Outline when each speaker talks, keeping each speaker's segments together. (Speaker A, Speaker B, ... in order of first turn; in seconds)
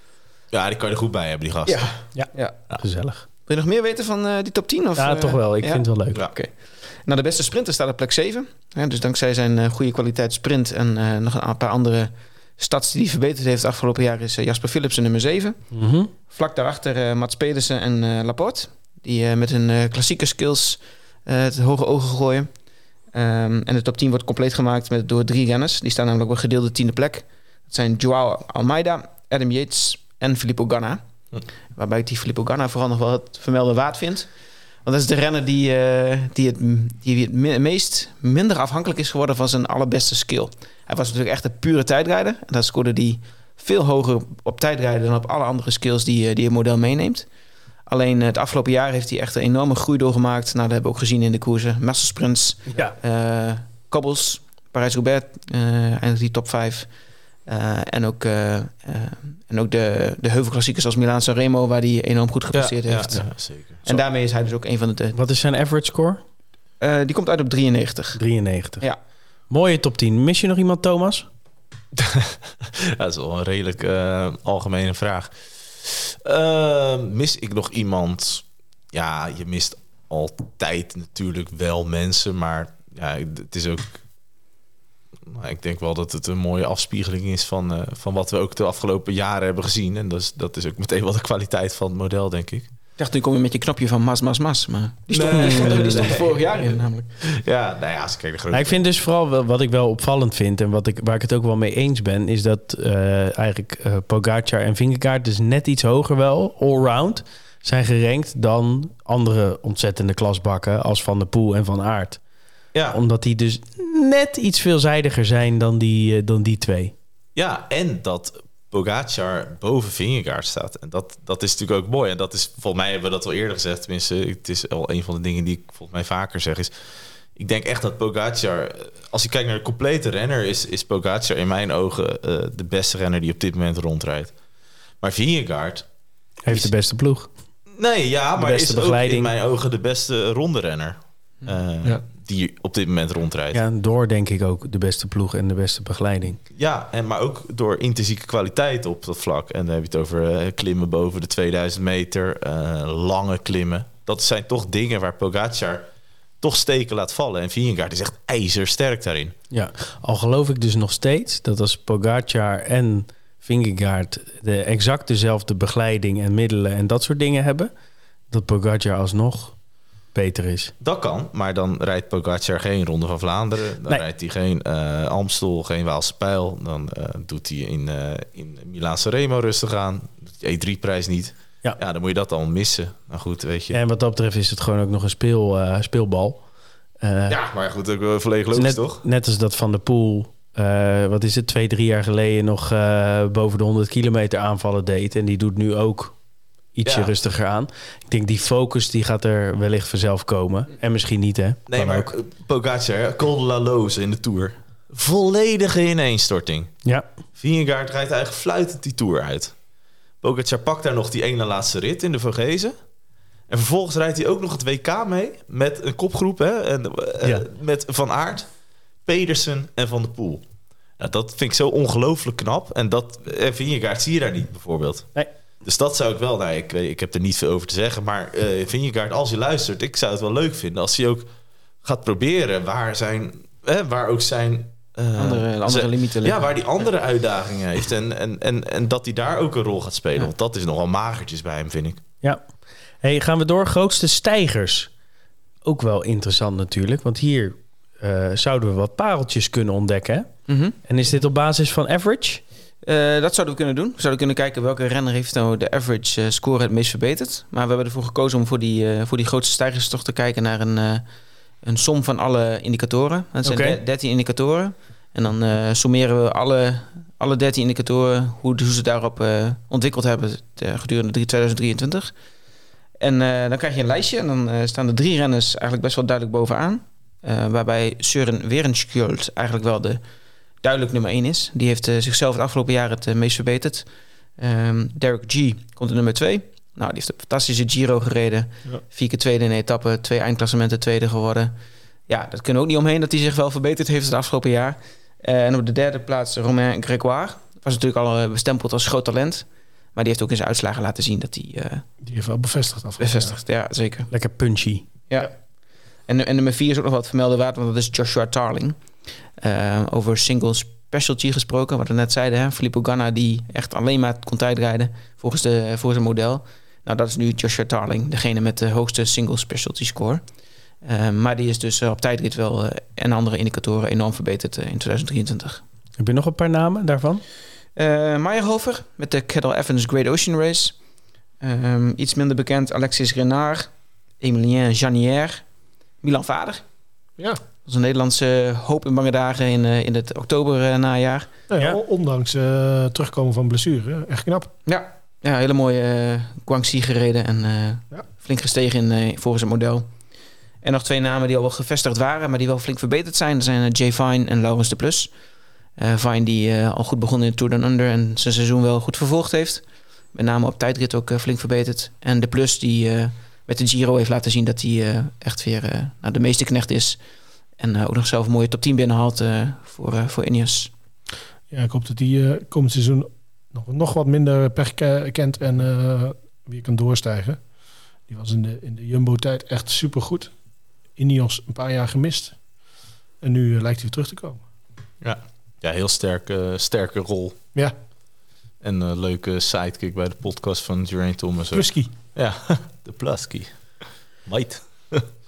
Speaker A: 0.5-1.9, 62.5-64.0, 72.0-84.0, 85.3-92.7, 95.1-98.8, 112.7-113.0, 117.3-126.7, 127.4-134.3, 135.0-135.8, 137.8-143.6, 146.5-155.9, 156.4-159.3, 170.8-183.8, 187.3-189.0, 196.9-197.1, 201.7-206.8, 207.4-209.6, 210.2-212.8, 213.5-218.5, 219.1-220.5, 221.0-225.1, 225.6-231.3, 231.8-242.0, 385.0-387.4, 388.6-395.1
Speaker B: 1.7-2.6, 3.5-22.5, 23.1-31.0, 31.8-34.3, 34.8-47.3, 47.9-56.9, 57.5-65.2, 66.8-68.2, 93.0-97.1, 235.2-236.9, 250.5-250.8, 252.8-261.0, 261.6-272.1, 273.0-280.0, 280.6-283.9, 284.4-291.5, 292.1-301.9, 303.0-304.1, 306.1-308.8, 309.4-320.2, 320.8-325.6, 327.8-330.8, 331.4-335.4, 336.0-336.6, 337.6-341.3, 344.7-349.9, 350.6-355.1, 355.8-367.0, 367.6-370.7
Speaker C: 2.1-3.2, 5.0-6.2, 15.7-16.1, 65.1-66.2, 68.2-68.9, 69.5-71.3, 95.4-95.8, 98.5-112.2, 112.9-116.9, 136.4-137.3, 138.4-139.3, 143.5-146.4, 159.5-167.7, 168.3-169.6, 170.1-170.7, 183.7-186.4, 187.0-187.4, 188.5-196.2, 196.7-202.1, 243.0-244.9, 245.6-252.4, 263.4-263.8, 304.1-304.9, 326.0-327.2
Speaker D: 302.0-303.4, 341.5-344.5, 371.5-377.4, 378.1-380.3, 381.0-382.4, 383.2-384.4, 391.5-391.9